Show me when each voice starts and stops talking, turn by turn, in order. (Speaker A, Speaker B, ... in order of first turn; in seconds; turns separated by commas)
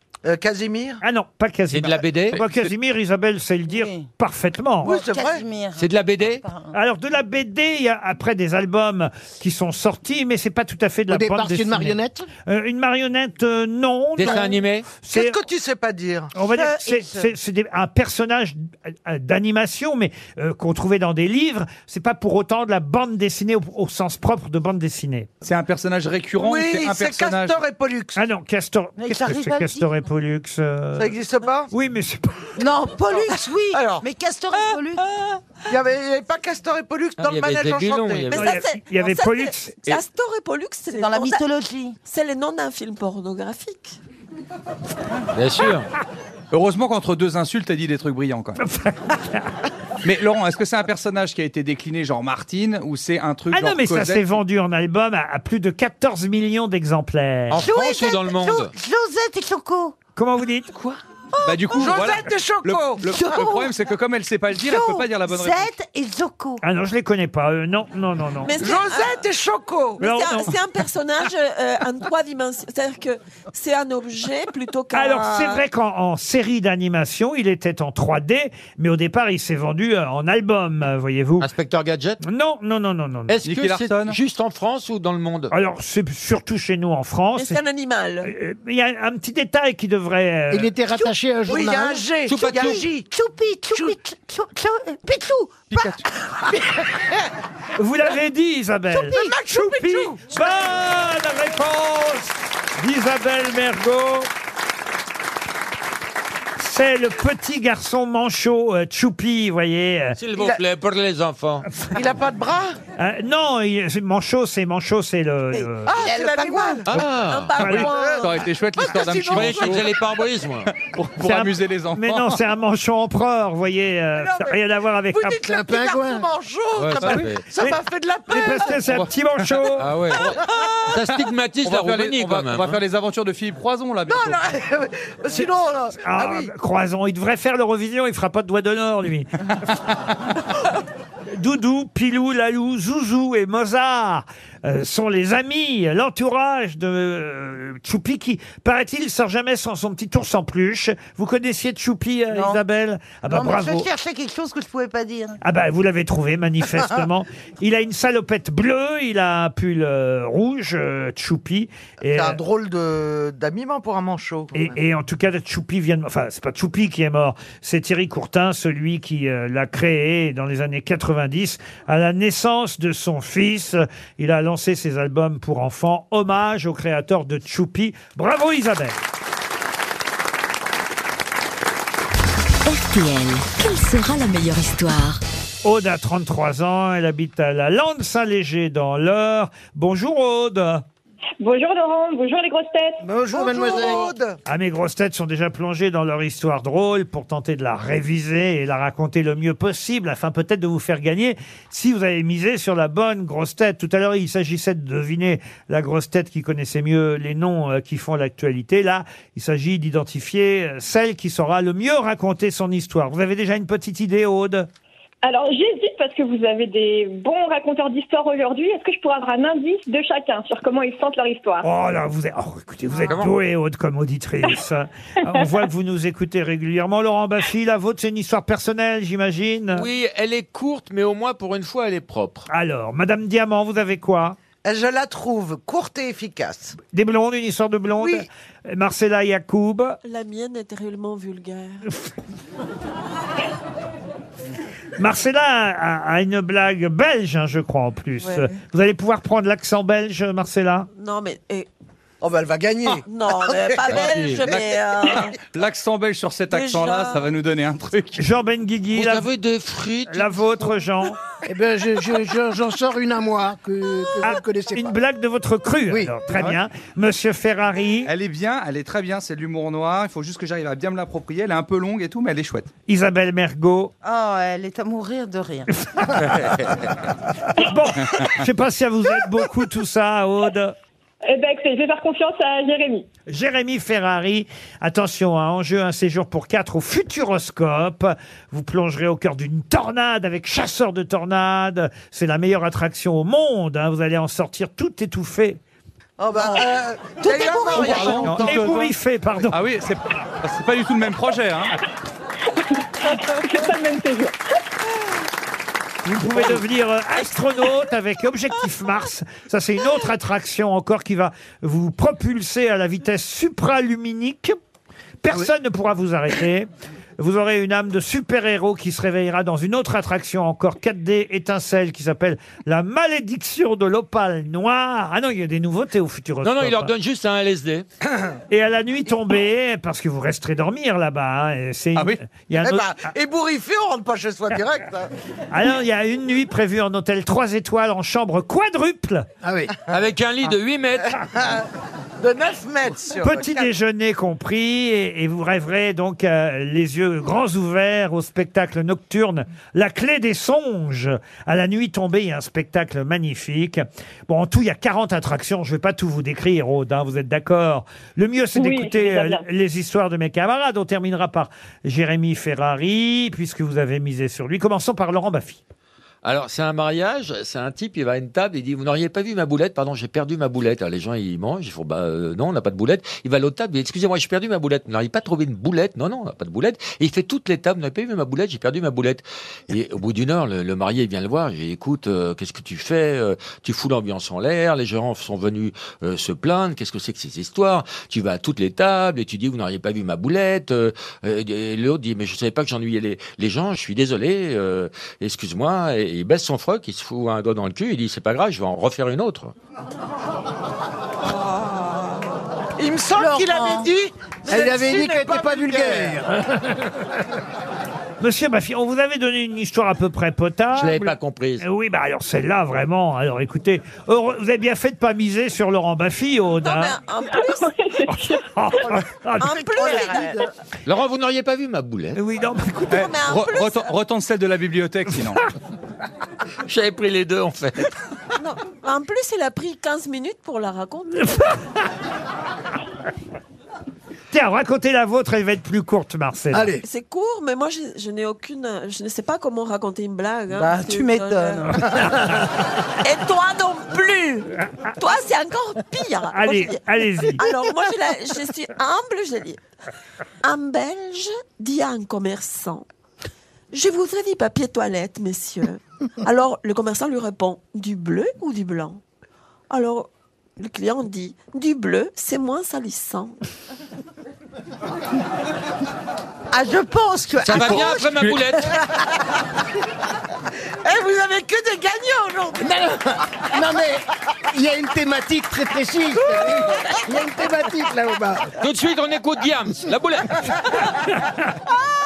Speaker A: 0.2-1.0, Speaker B: 1.0-5.0, Speaker C: 1.7-2.4, Speaker D: 3.7-4.1, Speaker A: 4.8-5.4, Speaker D: 4.9-6.7, Speaker C: 5.8-6.4, Speaker B: 6.7-15.4, Speaker E: 11.1-12.3, Speaker C: 14.2-14.9, Speaker A: 15.1-16.6, Speaker B: 16.4-25.3, Speaker D: 16.6-17.3, Speaker F: 25.4-27.6, Speaker A: 26.4-28.2, Speaker B: 28.2-31.2, Speaker D: 29.0-29.9, Speaker A: 30.9-31.7, Speaker B: 31.7-32.6, Speaker D: 32.6-35.0, Speaker A: 33.7-34.0, Speaker A: 35.7-38.3, Speaker C: 37.2-38.5, Speaker G: 38.3-41.4, Speaker B: 38.3-40.0, Speaker D: 40.9-42.0, Speaker G: 42.1-44.0, Speaker C: 45.3-45.9, Speaker F: 46.5-48.6, Speaker B: 48.6-49.5, Speaker F: 50.0-54.3, Speaker B: 53.5-57.6, Speaker C: 57.5-58.7, Speaker D: 57.6-60.0, Speaker B: 60.2-61.0, Speaker F: 61.4-65.7, Speaker A: 61.7-63.5, Speaker D: 63.1-63.7, Speaker D: 64.5-66.6, Speaker B: 66.6-68.6, Speaker G: 68.4-69.2, Speaker A: 68.6-70.0, Speaker G: 70.0-75.6, Speaker B: 70.0-70.5, Speaker B: 74.9-81.5, Speaker C: 81.4-82.2, Speaker B: 82.2-83.4, Speaker C: 83.3-85.5, Speaker F: 83.5-84.2, Speaker B: 85.5-87.6, Speaker G: 87.3-88.3, Speaker B: 88.2-90.7, Speaker E: 90.5-92.0, Speaker A: 91.5-93.1, Speaker C: 92.3-92.8, Speaker D: 92.4-95.9, Speaker F: 95.7-96.0, Speaker B: 97.8-104.3, Speaker A: 98.9-100.5, Speaker B: 106.6-110.2, Speaker C: 110.2-111.7, Speaker A: 111.9-112.8, Speaker B: 113.0-115.9, Speaker A: 115.9-116.9, Speaker D: 116.0-116.8, Speaker C: 116.9-117.6, Speaker G: 117.2-118.5, Speaker F: 117.6-119.9, Speaker B: 117.6-117.9, Speaker A: 117.7-119.9, Speaker C: 119.3-120.7, Speaker F: 120.8-122.4, Speaker B: 121.2-125.4, Speaker A: 124.2-124.6, Speaker A: 125.1-129.0, Speaker E: 125.4-126.3, Speaker C: 126.8-127.4, Speaker B: 128.3-130.0, Speaker F: 128.8-129.1, Speaker C: 129.8-132.8, Speaker F: 131.6-134.4, Speaker A: 134.1-136.5, Speaker B: 136.0-139.5, Speaker B: 141.3-153.9, Speaker D: 152.3-152.6, Speaker D: 153.3-155.4, Speaker B: 155.4-162.4, Speaker A: 162.1-164.8, Speaker B: 164.5-179.0, Speaker H: 182.6-185.2, Speaker B: 185.6-190.8, Speaker I: 191.4-193.0, Speaker E: 193.0-194.1, Speaker A: 193.3-194.4, Speaker B: 194.5-214.7, Speaker I: 215.2-221.7, Speaker B: 221.6-229.9, Speaker C: 222.9-223.3, Speaker C: 229.7-232.5, Speaker B: 232.5-234.4, Speaker A: 234.6-236.8, Speaker B: 236.8-240.0, Speaker A: 238.0-238.3, Speaker G: 240.0-241.9, Speaker B: 245.0-250.9, Speaker G: 248.2-248.6, Speaker G: 250.9-251.7, Speaker A: 252.2-254.1, Speaker G: 253.1-255.3, Speaker F: 253.9-258.2, Speaker G: 256.5-257.3, Speaker B: 258.2-259.3, Speaker C: 258.9-260.5, Speaker B: 260.1-261.2, Speaker E: 261.4-264.9, Speaker B: 264.2-268.1, Speaker E: 265.9-266.2, Speaker F: 266.3-266.6, Speaker F: 268.1-272.7, Speaker B: 272.9-273.9, Speaker D: 274.0-275.7, Speaker B: 275.9-276.5, Speaker B: 277.6-280.7, Speaker I: 281.3-283.1, Speaker B: 283.3-295.6, Speaker A: 296.2-298.6, Speaker D: 297.2-298.4, Speaker F: 297.7-298.9, Speaker B: 297.8-299.6, Speaker F: 299.5-301.8, Speaker I: 303.1-304.4, Speaker B: 306.1-314.6, Speaker B: 315.2-326.9, Speaker C: 326.4-327.9, Speaker B: 328.5-332.9, Speaker A: 332.6-335.1, Speaker B: 335.5-339.3, Speaker E: 339.4-339.8, Speaker C: 339.9-341.2, Speaker A: 341.2-341.6, Speaker A: 342.2-343.7, Speaker B: 343.2-365.6, Speaker I: 358.6-359.4, Speaker C: 366.2-399.5, Speaker A: 402.8-406.2, Speaker D: 403.1-403.9, Speaker E: 404.5-406.9, Speaker B: 408.2-416.9, Speaker C: 410.7-411.6, Speaker G: 416.6-418.3, Speaker I: 417.3-418.4, Speaker B: 418.1-420.1, Speaker G: 419.4-420.4, Speaker D: 419.5-420.4, Speaker C: 420.9-422.2, Speaker B: 422.1-423.1, Speaker G: 422.9-423.9, Speaker F: 422.9-425.4, Speaker C: 426.6-427.9, Speaker G: 428.4-431.5, Speaker B: 434.3-436.7, Speaker E: 436.5-436.8, Speaker G: 436.8-441.9, Speaker D: 440.5-441.9, Speaker G: 443.0-446.8, Speaker B: 446.3-447.5, Speaker G: 447.4-449.6, Speaker G: 450.4-452.9, Speaker G: 453.7-459.0, Speaker G: 459.7-463.4, Speaker D: 466.5-468.3, Speaker C: 467.4-468.7, Speaker A: 470.8-473.6, Speaker E: 473.5-478.5, Speaker A: 476.3-477.0, Speaker C: 478.6-480.5